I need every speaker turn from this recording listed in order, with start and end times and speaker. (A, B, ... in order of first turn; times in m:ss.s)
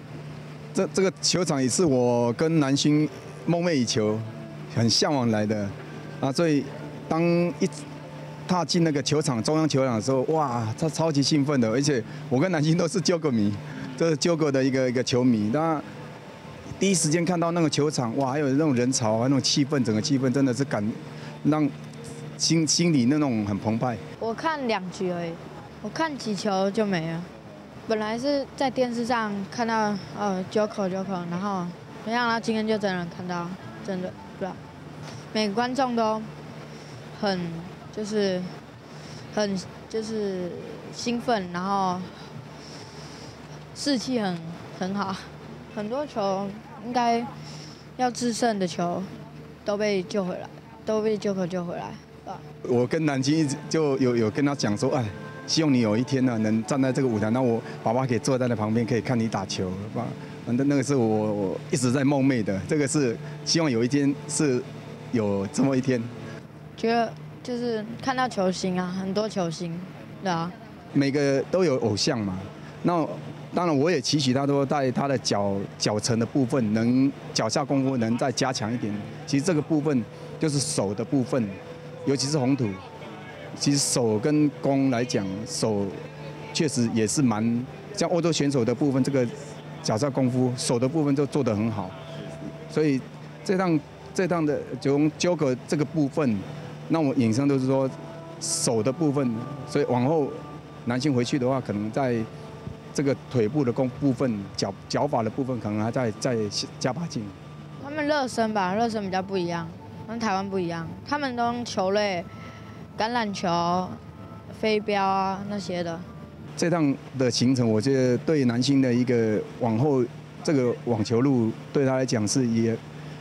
0:00.7-0:07.8 A
0:08.4-0:15.8 A
0:16.8-0:21.7 A
0:22.4-0:24.0 A
0:24.2-0:27.3 B
0:27.8-0:34.6 B
0:35.3-0:36.3 B
0:37.1-0:38.5 B
0:39.3-0:42.3 B
0:43.7-0:47.3 B
0:48.0-0:49.1 B
0:49.6-0:52.4 B
0:52.6-1:06.1 A
1:06.8-1:10.5 B
1:10.9-1:22.8 A
1:23.6-1:26.0 A
1:26.5-1:32.0 A
1:32.7-1:42.3 A
1:42.9-1:47.4 A
1:47.8-1:52.4 B
1:53.0-1:56.1 B
1:56.6-2:02.8 A